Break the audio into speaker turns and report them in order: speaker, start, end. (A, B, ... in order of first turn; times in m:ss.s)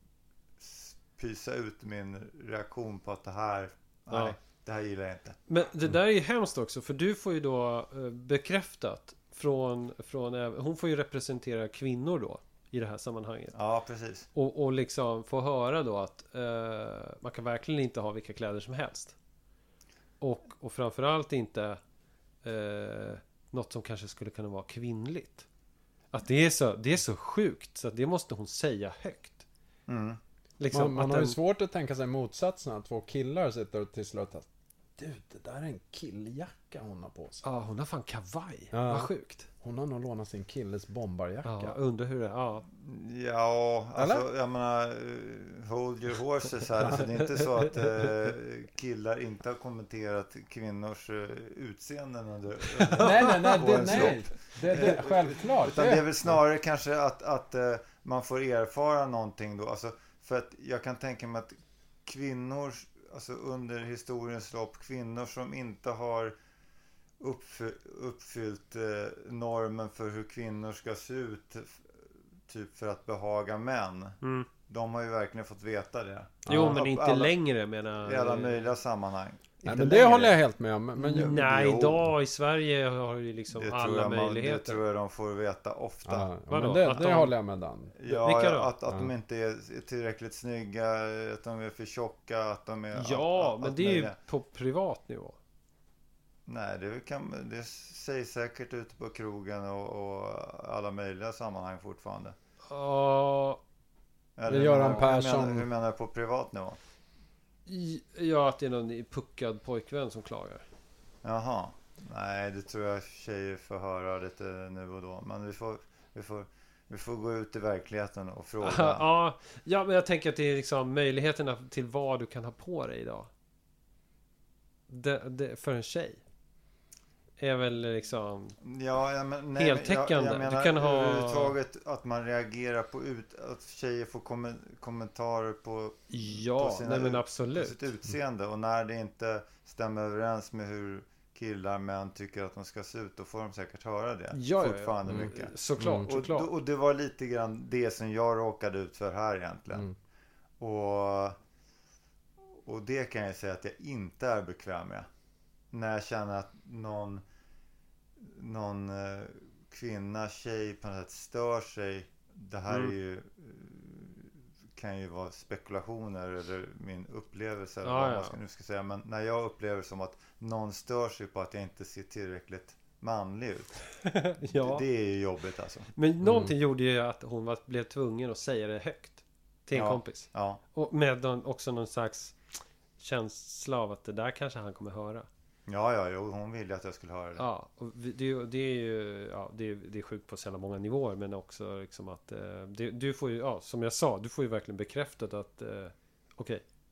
0:00.6-0:05.4 A
0:04.1-0:04.4 B
0:05.5-0:13.5 B
0:13.5-0:14.3 A
0:14.3-0:19.2 B
0:20.2-0:21.8 B
0:22.4-0:25.4 B
0:26.1-0:29.4 B
0:29.9-0:30.2 A
0:30.6-0:31.4 B
0:30.7-0:34.4 C
0:35.0-0:37.4 C
0:37.4-0:39.5 B
0:38.7-0:41.8 C
0:41.4-0:42.6 B
0:42.8-1:06.3 A
0:44.0-0:44.2 C
0:52.9-0:54.0 B
0:52.9-0:56.3 C
1:07.2-1:11.8 A
1:12.5-1:17.3 A
1:14.2-1:14.5 B
1:16.4-1:16.8 C
1:16.5-1:18.7 B
1:18.0-1:20.4 A
1:19.6-1:21.4 C
1:21.0-1:24.8 B
1:21.1-1:22.1 A
1:23.5-1:26.3 A
1:26.0-1:27.9 C
1:26.5-1:27.3 B
1:28.0-1:34.2 A
1:28.1-1:28.7 B
1:32.9-1:35.4 B
1:36.5-1:42.3 A
1:42.7-1:43.6 B
1:44.4-1:46.8 A
1:44.5-1:45.7 C
1:47.6-1:50.6 B
1:51.2-1:59.0 A
1:58.6-2:03.3 B
2:04.9-2:06.2 B
2:07.4-2:08.6 B
2:08.6-2:29.9 A
2:09.6-2:11.6 B
2:16.1-2:17.9 B
2:24.3-2:26.5 B
2:25.1-2:26.1 C
2:30.6-2:31.4 A
2:32.6-2:35.1 A
2:35.7-2:37.2 A
2:38.2-2:53.8 A
2:42.7-2:42.9 B
2:47.8-2:48.3 B
2:54.0-2:54.8 B
2:54.6-2:55.9 A
2:55.9-3:02.4 B
2:56.2-2:56.5 C
2:59.7-3:00.6 A
3:03.0-3:05.3 B
3:05.7-3:07.4 A
3:07.4-3:16.6 B